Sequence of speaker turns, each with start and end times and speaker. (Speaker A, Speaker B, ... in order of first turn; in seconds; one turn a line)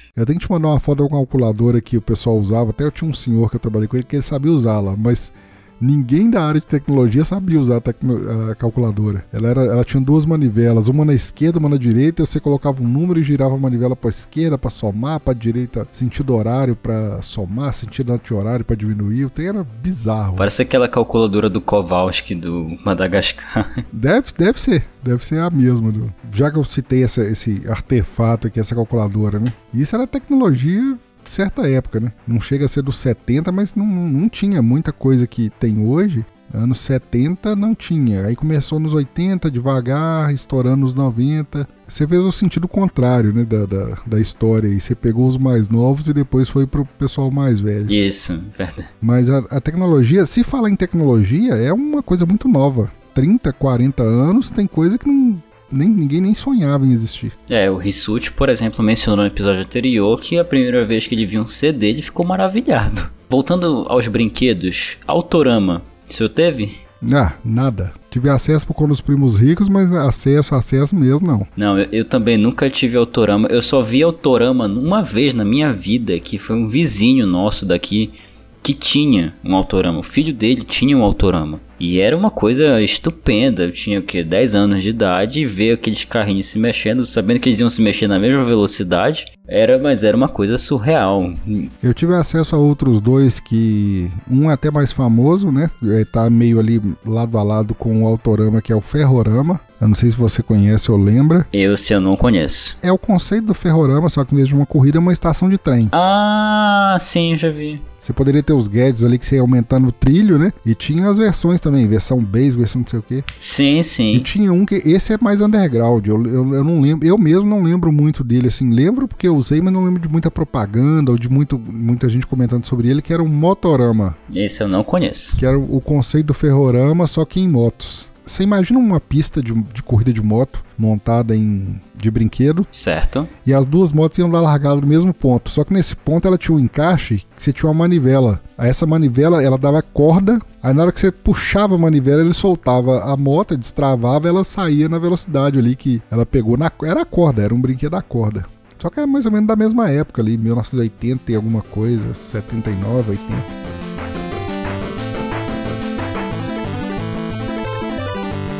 Speaker A: 0.1-20.5
Speaker B: 20.4-23.8
Speaker A: 23.9-48.0
Speaker B: 47.9-48.9
Speaker A: 49.0-57.3
Speaker B: 57.5-66.8
Speaker A: 67.0-71.5
Speaker B: 71.5-91.7
Speaker A: 91.8-101.5
Speaker B: 101.5-102.8
Speaker A: 102.8-105.9
Speaker B: 105.9-107.8
Speaker A: 108.0-113.2
Speaker B: 113.4-114.3
Speaker A: 114.1-124.2
Speaker B: 124.3-125.4
Speaker A: 125.4-132.7
Speaker B: 132.7-133.3
Speaker A: 133.4-153.5